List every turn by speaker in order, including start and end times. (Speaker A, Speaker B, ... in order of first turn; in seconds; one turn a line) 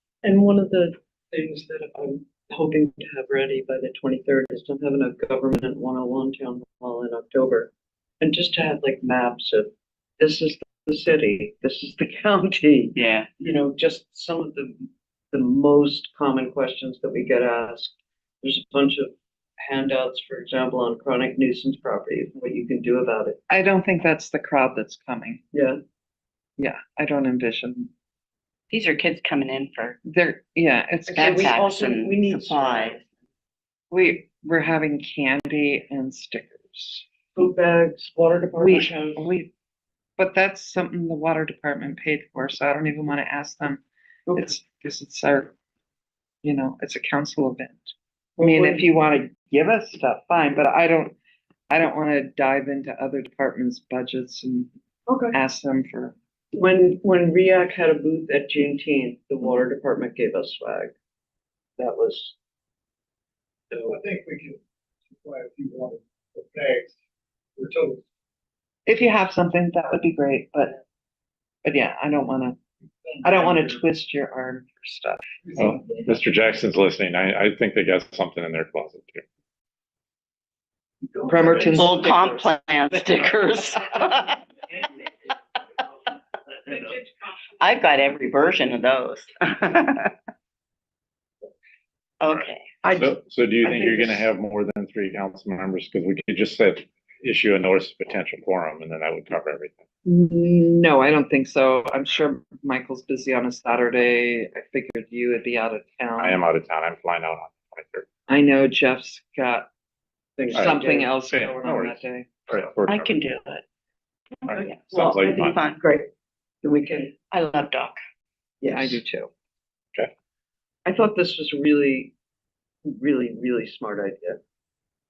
Speaker A: 0.2-7.7
Speaker A: 8.2-9.7
Speaker A: 10.2-14.7
Speaker B: 12.9-13.3
Speaker A: 15.3-23.4
Speaker C: 23.5-25.4
Speaker A: 25.5-25.8
Speaker C: 26.6-27.9
Speaker B: 28.7-30.0
Speaker C: 30.0-31.6
Speaker A: 31.1-33.0
Speaker B: 31.2-33.0
Speaker C: 33.9-37.0
Speaker A: 37.4-39.3
Speaker C: 38.6-39.5
Speaker C: 40.2-43.8
Speaker C: 44.4-45.5
Speaker C: 46.4-51.1
Speaker A: 48.4-48.9
Speaker C: 51.7-54.7
Speaker A: 55.1-55.4
Speaker C: 55.3-56.1
Speaker A: 56.5-60.9
Speaker A: 61.8-62.3
Speaker A: 63.7-64.0
Speaker D: 63.9-64.6
Speaker D: 65.2-66.9
Speaker D: 67.6-68.0
Speaker C: 68.8-70.8
Speaker C: 71.6-72.5
Speaker C: 73.2-75.2
Speaker E: 75.6-79.2
Speaker A: 81.1-81.8
Speaker C: 81.2-82.1
Speaker B: 81.6-84.4
Speaker B: 87.6-90.1
Speaker B: 92.2-92.8
Speaker E: 92.2-99.8
Speaker A: 92.8-93.1
Speaker A: 93.6-94.2
Speaker C: 100.0-106.4
Speaker E: 106.2-108.0
Speaker C: 108.3-109.7
Speaker A: 110.4-111.1
Speaker C: 110.5-112.3
Speaker E: 110.5-113.2
Speaker B: 112.9-113.6
Speaker E: 114.5-115.6
Speaker B: 114.5-115.8
Speaker A: 115.8-116.1
Speaker A: 116.6-117.1
Speaker B: 117.3-118.0
Speaker A: 118.6-119.0
Speaker C: 118.6-119.3
Speaker A: 120.8-122.1
Speaker A: 122.8-124.4